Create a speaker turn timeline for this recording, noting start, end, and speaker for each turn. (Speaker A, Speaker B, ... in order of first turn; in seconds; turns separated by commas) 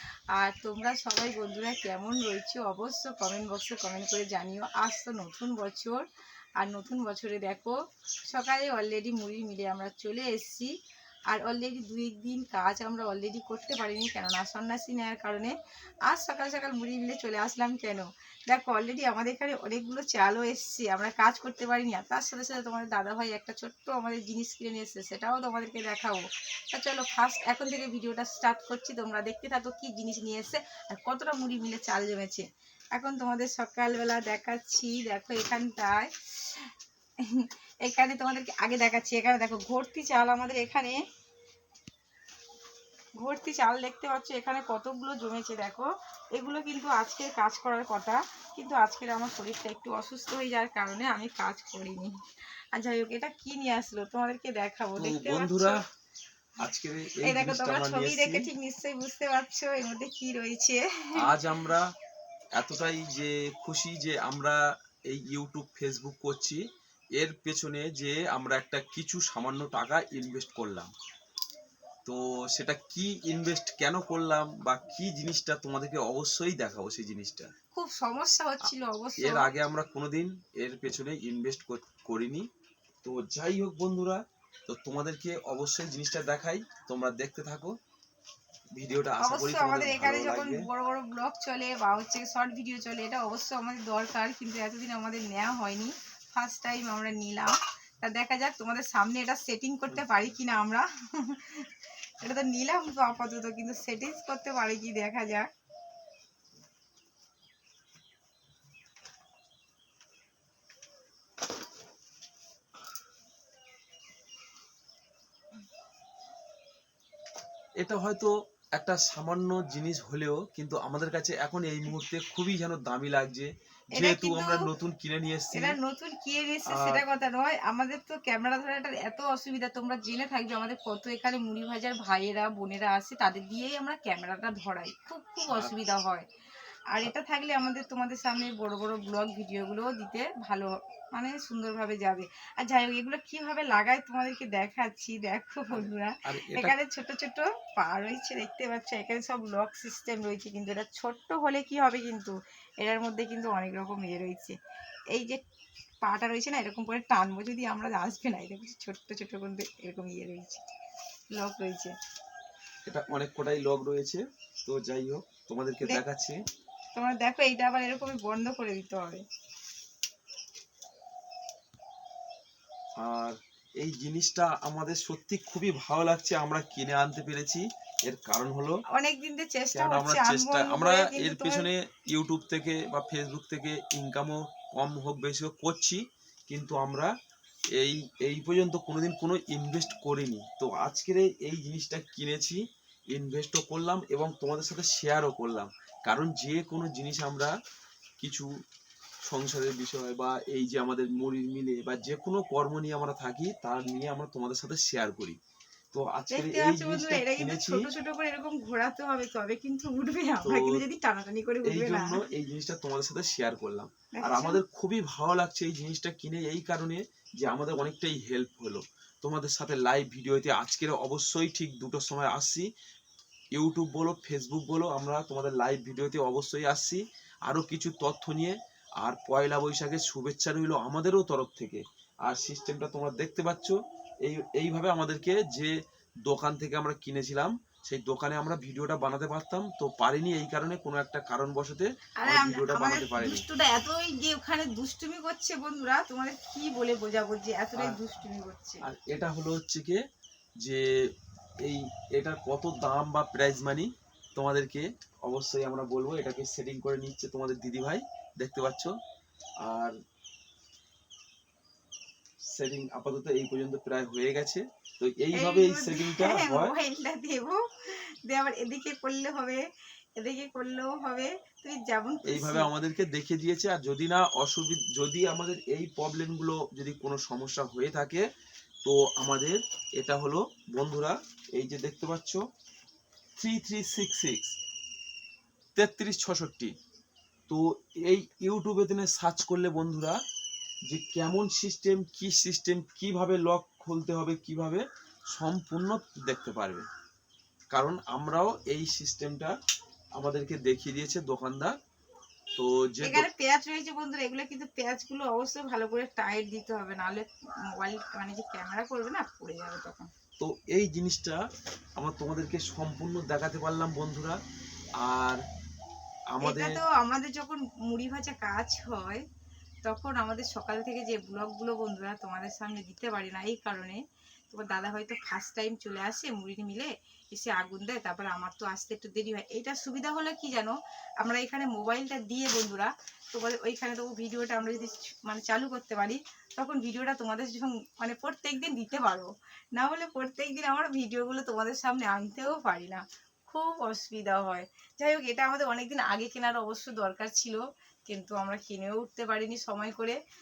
Speaker A: 0.3-6.0, Speaker A: 6.6-7.7, Speaker A: 8.3-10.7, Speaker A: 11.3-15.5, Speaker A: 16.1-36.7, Speaker A: 37.4-41.0, Speaker A: 43.2-52.1, Speaker A: 52.7-55.8, Speaker B: 55.0-55.8, Speaker B: 56.6-58.5, Speaker A: 57.2-61.5, Speaker B: 61.2-61.9, Speaker B: 62.6-66.6, Speaker B: 67.2-70.9, Speaker B: 72.0-77.5, Speaker A: 77.7-79.5, Speaker B: 78.6-82.5, Speaker B: 83.0-87.7, Speaker B: 88.7-90.7, Speaker A: 89.2-101.6, Speaker B: 99.9-100.2, Speaker A: 102.2-105.5, Speaker B: 117.8-125.8, Speaker A: 123.9-124.7, Speaker A: 125.5-136.2, Speaker B: 126.7-127.0, Speaker B: 135.5-135.7, Speaker A: 136.9-154.6, Speaker B: 145.7-146.7, Speaker A: 155.1-155.4, Speaker A: 156.0-160.6, Speaker A: 161.3-161.9, Speaker B: 162.8-166.4, Speaker A: 166.9-169.2, Speaker B: 173.0-178.7, Speaker A: 178.9-181.6, Speaker B: 179.7-187.1, Speaker B: 187.8-197.5, Speaker B: 198.2-198.5, Speaker B: 199.3-205.4, Speaker B: 205.9-207.9, Speaker A: 206.3-212.2, Speaker B: 210.4-210.8, Speaker B: 211.6-222.7, Speaker A: 214.1-214.6, Speaker B: 223.5-235.7, Speaker B: 236.2-243.4, Speaker A: 242.2-248.8, Speaker B: 248.8-250.0, Speaker B: 251.6-258.9, Speaker B: 259.6-259.9, Speaker B: 262.5-266.7, Speaker A: 265.3-269.6, Speaker A: 270.2-272.7, Speaker B: 272.2-278.2, Speaker B: 278.8-282.4, Speaker B: 283.4-284.6, Speaker B: 285.8-286.7, Speaker B: 287.5-290.2, Speaker B: 290.9-296.8, Speaker B: 297.7-299.5, Speaker B: 300.2-301.7, Speaker B: 302.6-303.2, Speaker A: 303.0-310.1, Speaker B: 310.4-311.4, Speaker B: 312.0-314.4, Speaker B: 315.0-315.4, Speaker B: 316.3-316.8, Speaker A: 316.4-319.2, Speaker A: 319.8-324.0, Speaker A: 324.5-350.2